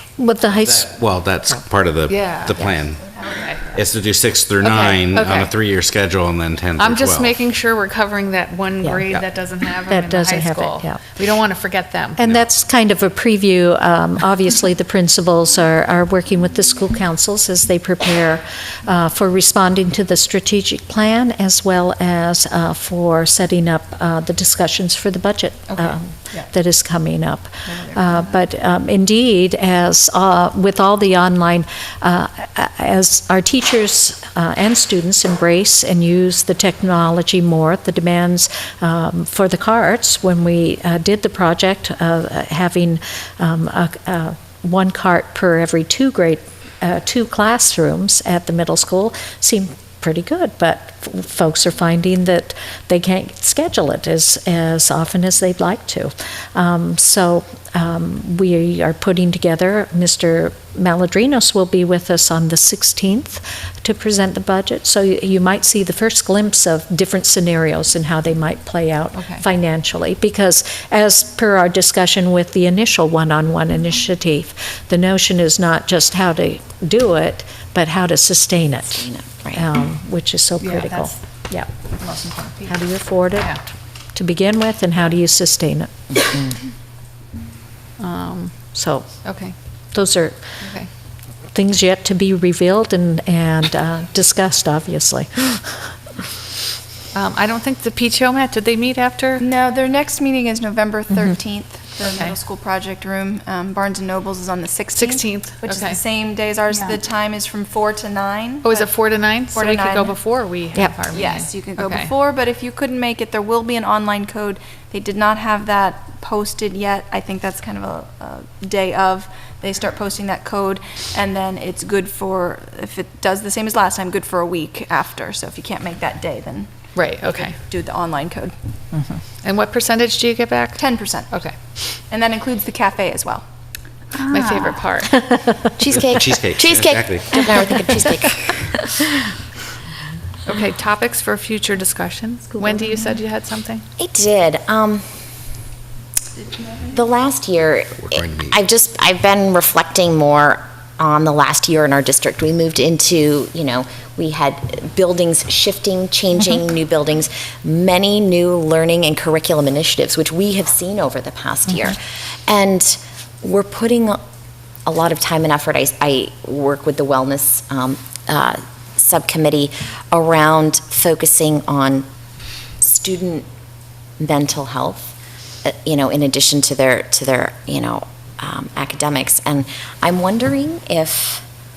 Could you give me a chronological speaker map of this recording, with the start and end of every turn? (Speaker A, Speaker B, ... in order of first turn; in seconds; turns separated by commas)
Speaker A: 0.2-0.9, Speaker B: 0.6-7.4, Speaker C: 2.1-2.6, Speaker C: 3.2-3.7, Speaker C: 4.6-5.5, Speaker C: 6.8-12.2, Speaker A: 9.9-11.1, Speaker A: 12.2-81.7, Speaker C: 25.7-26.4, Speaker C: 27.7-28.3, Speaker C: 69.1-69.4, Speaker D: 78.9-79.6, Speaker C: 80.6-81.1, Speaker C: 82.0-82.7, Speaker A: 82.6-83.6, Speaker A: 84.1-86.1, Speaker C: 88.0-88.5, Speaker A: 88.7-89.1, Speaker C: 89.2-89.5, Speaker A: 89.9-90.5, Speaker C: 90.6-90.9, Speaker A: 91.5-95.9, Speaker C: 97.1-99.4, Speaker E: 99.4-108.9, Speaker C: 102.0-102.3, Speaker C: 105.0-106.0, Speaker C: 108.6-112.1, Speaker E: 109.5-110.1, Speaker E: 111.1-126.7, Speaker C: 126.9-127.6, Speaker E: 127.3-128.5, Speaker C: 129.4-131.5, Speaker E: 130.8-131.3, Speaker E: 132.1-133.4, Speaker C: 134.2-135.3, Speaker D: 135.8-138.7, Speaker B: 135.9-137.4, Speaker C: 140.4-143.8, Speaker D: 144.0-145.0, Speaker D: 146.8-164.2, Speaker B: 148.0-148.6, Speaker D: 164.8-172.1, Speaker D: 172.8-173.4, Speaker D: 174.2-181.4